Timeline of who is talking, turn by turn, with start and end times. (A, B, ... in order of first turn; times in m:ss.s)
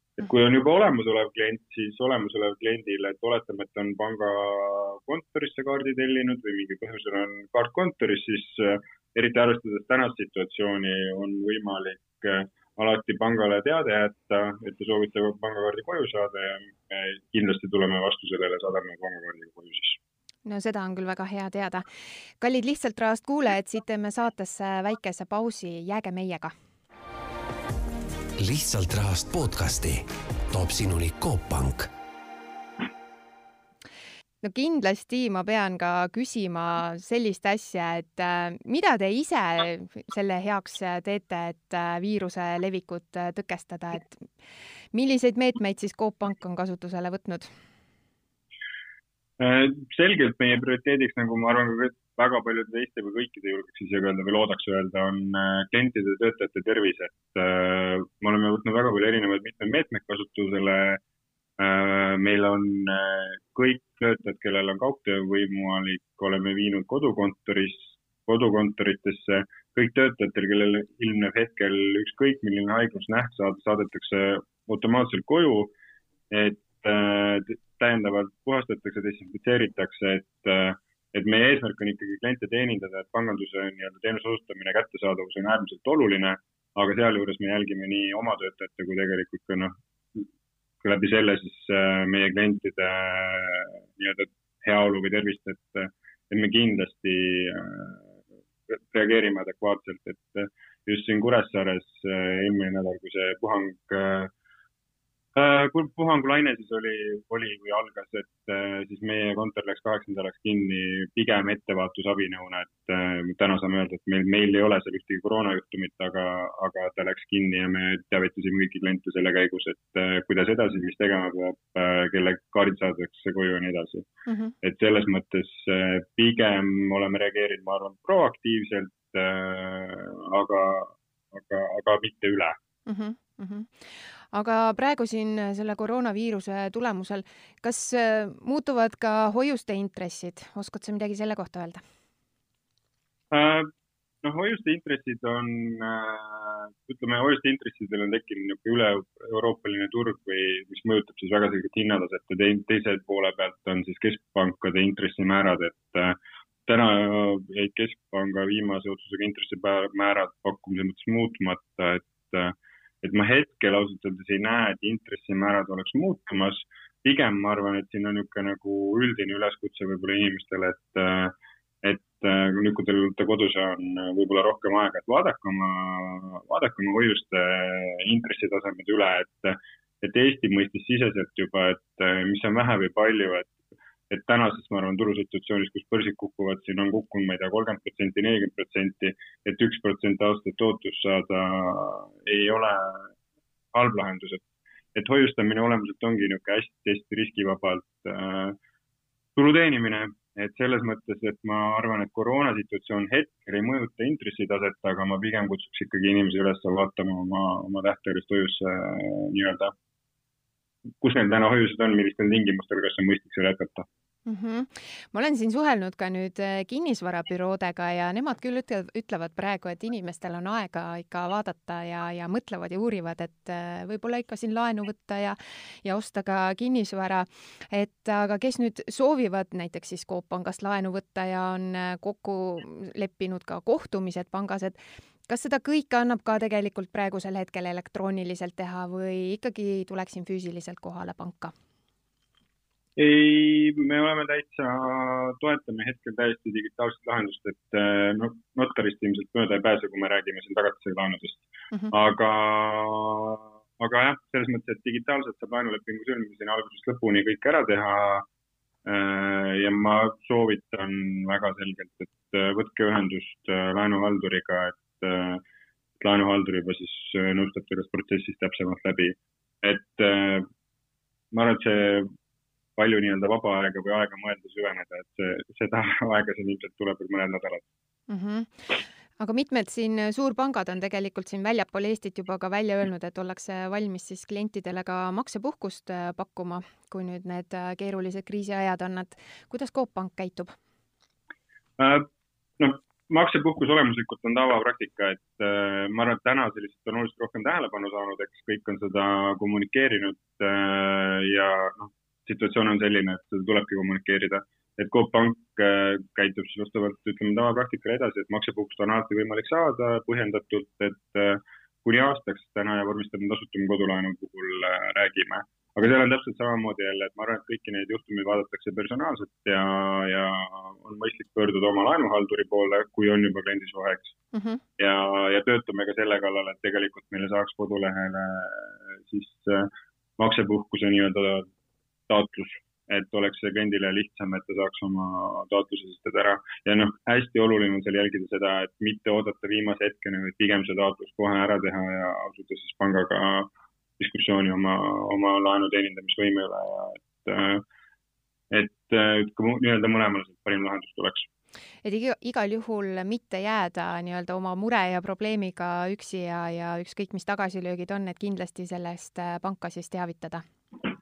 0:00.2-0:20.0 A
0:20.4-0:21.9 B
0:22.4-0:26.5 B
0:28.4-0:31.9 C
0:34.4-0:44.3 B
0:44.9-0:47.5 B
0:49.4-1:01.0 A
1:01.6-1:15.7 A
1:16.3-1:30.3 A
1:30.8-1:44.3 A
1:45.3-2:04.1 A
2:04.3-2:04.5 B
2:04.6-2:12.6 A
2:12.8-2:13.7 B
2:14.3-2:21.8 B
2:23.3-2:23.7 A
2:24.2-3:13.2 A
3:13.7-3:18.6 A
3:19.4-3:29.7 A
3:31.0-3:33.8 A
3:34.3-4:01.5 B
4:03.0-4:18.3 A
4:18.8-4:25.4 A
4:26.0-4:30.5 A
4:31.3-4:32.1 A
4:32.8-4:37.7 A
4:38.1-4:50.5 B
4:51.8-4:52.1 A
4:52.6-5:24.2 A
5:24.3-5:24.6 B
5:24.8-5:31.5 A
5:32.1-5:47.6 A
5:48.5-5:51.3 A
5:51.8-6:00.4 B